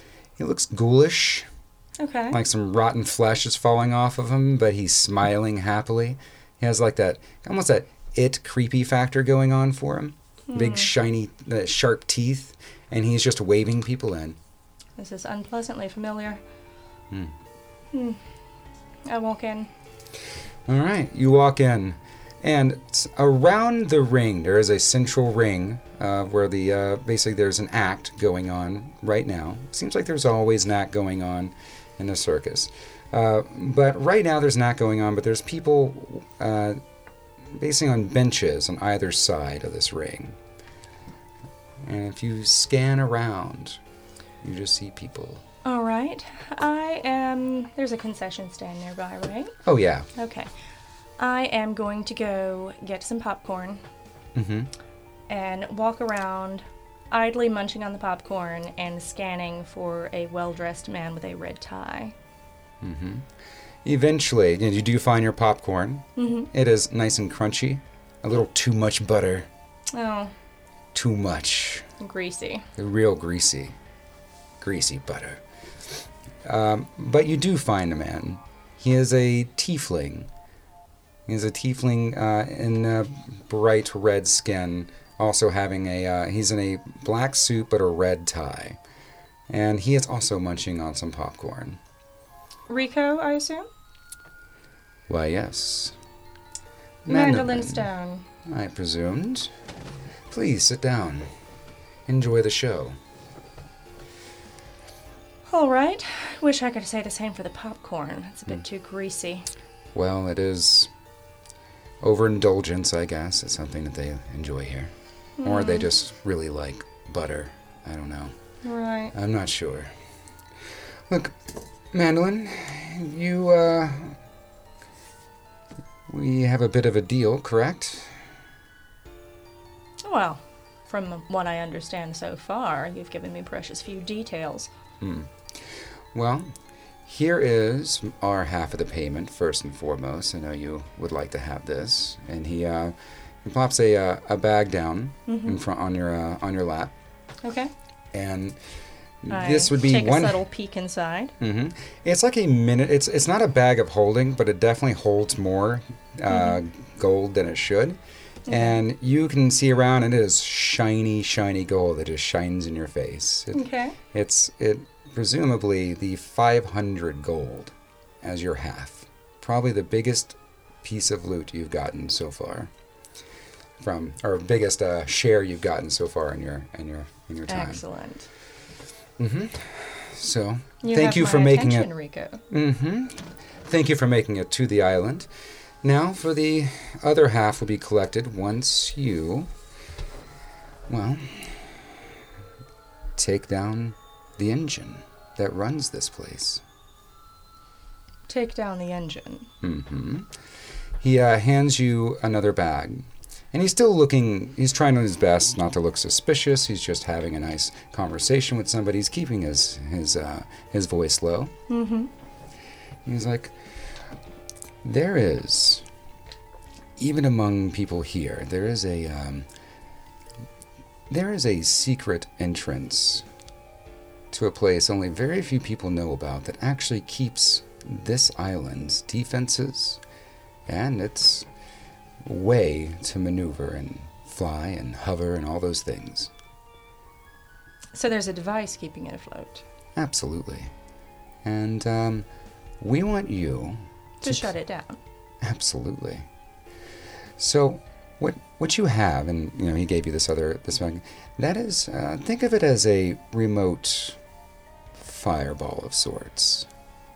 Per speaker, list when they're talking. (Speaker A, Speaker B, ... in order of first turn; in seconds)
Speaker A: 0.4-1.5, 2.3-14.4, 20.7-36.8, 37.5-40.4, 41.8-43.8, 44.4-45.4, 49.6-50.1, 54.4-54.7, 62.8-63.2, 63.8-69.5, 70.9-71.9, 72.8-73.7, 74.6-75.4, 76.5-80.3, 81.3-88.8, 89.5-91.8, 95.1-95.9, 97.1-97.9, 98.5-99.5, 100.3-101.3, 102.1-103.0, 109.9-110.9, 112.0-114.9, 115.4-118.3, 119.1-119.9, 121.1-121.4, 121.9-124.2, 126.1-128.1, 135.0-135.3, 136.1-136.5, 137.1-146.9, 148.1-148.6, 149.2-150.4, 151.4-172.7, 173.8-177.8, 179.2-181.9, 182.5-185.3, 185.8-189.5, 190.9-191.7, 193.2-196.6, 199.6-200.3, 201.0-211.5, 213.1-213.5, 214.8-215.8, 217.0-219.5, 221.1-223.2, 224.3-230.0, 230.7-231.5, 232.2-236.3, 240.0-240.7, 241.4-242.3, 242.8-244.5, 245.4-246.3, 247.4-254.2, 255.0-256.7
Speaker B: 2.0-2.4, 10.5-10.9, 15.0-16.4, 17.9-18.2, 19.1-19.7, 45.6-49.5, 50.2-50.5, 51.2-53.8, 55.3-62.1, 66.2-66.5, 69.9-70.3, 72.0-72.7, 92.7-93.7, 97.1-98.2, 105.5-109.5, 115.4-115.9, 118.6-119.1, 130.0-134.7, 145.3-145.6, 147.4-147.7, 149.3-151.3, 156.3-156.6, 158.5-158.8, 163.5-164.0, 177.5-178.3, 180.8-182.4, 198.3-199.5, 211.7-212.1, 237.9-239.6, 244.2-245.0